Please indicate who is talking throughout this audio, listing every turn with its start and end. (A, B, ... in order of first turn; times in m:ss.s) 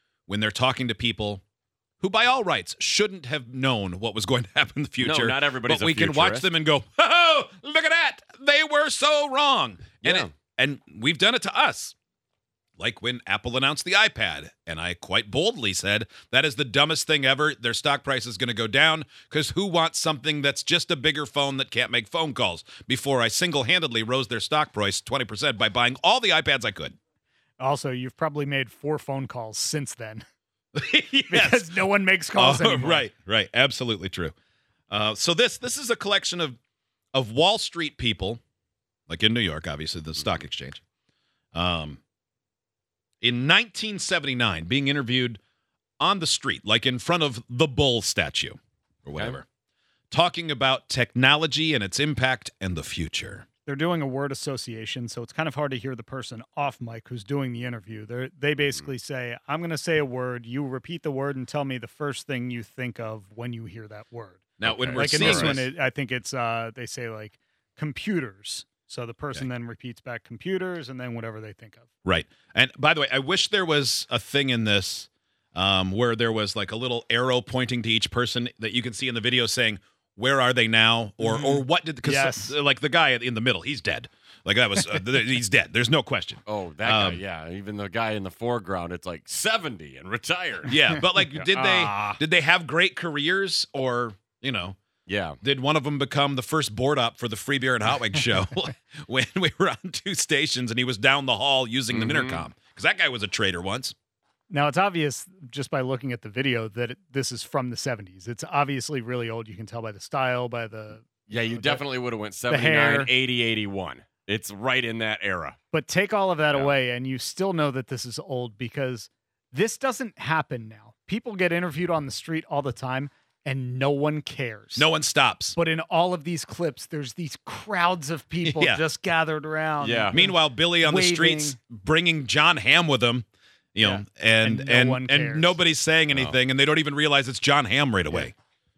0:00.3-0:01.4 A
0:02.0-0:11.9 A
0:05.0-0:06.5 B
0:10.0-0:10.3 B
0:12.8-0:27.0 A
0:27.6-0:30.2 C
0:30.7-0:31.8 A
0:31.3-0:33.1 C
0:32.3-0:34.3 A
0:34.9-0:36.6 A
0:37.1-0:38.4 A
0:39.1-0:40.8 A
0:41.5-0:42.0 A
0:43.2-0:45.4 A
0:46.0-0:49.4 A
0:49.2-0:49.4 B
0:50.1-0:53.4 A
0:53.6-1:11.8 C
0:58.6-0:58.9 B
1:04.6-1:05.6 A
1:04.6-1:05.6 B
1:12.0-1:27.2 A
1:21.2-1:22.6 C
1:26.4-1:30.7 B
1:30.7-1:34.8 A
1:31.5-1:32.2 C
1:35.1-1:35.4 B
1:35.4-1:43.9 A
1:41.9-1:42.5 B
1:44.5-1:51.8 C
1:51.3-1:55.6 B
1:52.5-1:53.1 C
1:55.7-2:04.9 C
2:04.8-2:05.6 A
2:05.5-2:11.6 C
2:08.4-2:08.8 A
2:09.8-2:10.2 B
2:10.1-2:18.3 A
2:13.8-2:15.6 C
2:16.1-2:16.4 B